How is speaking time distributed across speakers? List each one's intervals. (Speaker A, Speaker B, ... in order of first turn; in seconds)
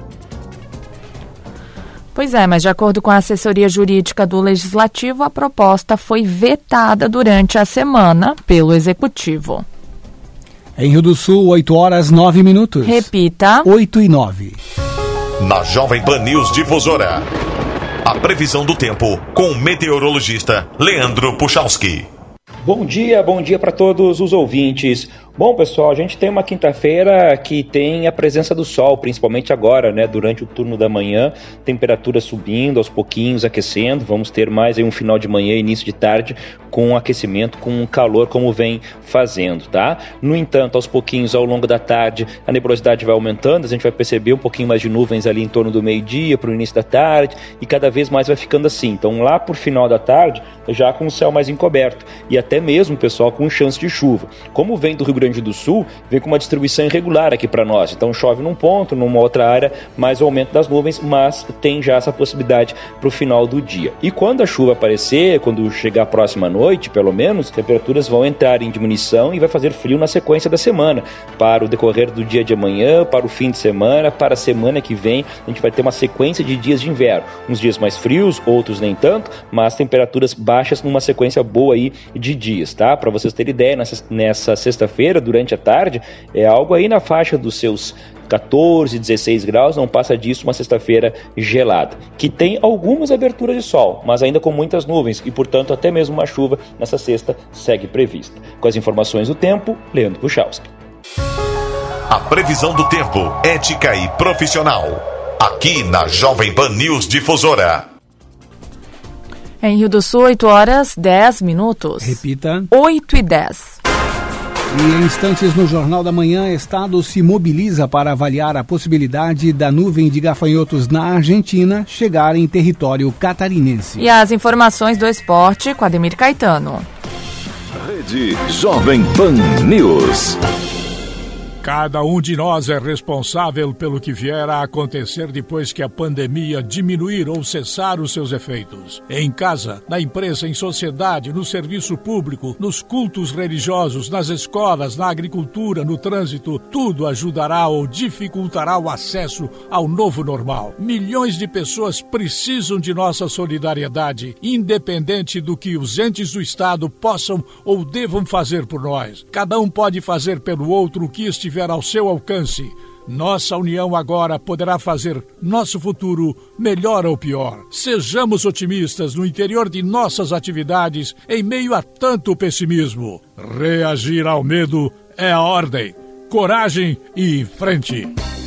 Speaker A: 2.1-9.6, 12.8-13.7, 109.6-112.2, 112.7-113.8, 124.0-126.8
Speaker B: 10.8-13.1, 13.6-14.6, 112.0-112.7, 114.7-124.1
Speaker C: 15.4-17.2, 18.0-22.1, 102.1-107.9
Speaker D: 22.6-100.7
Speaker E: 127.8-130.4
Speaker F: 131.6-178.1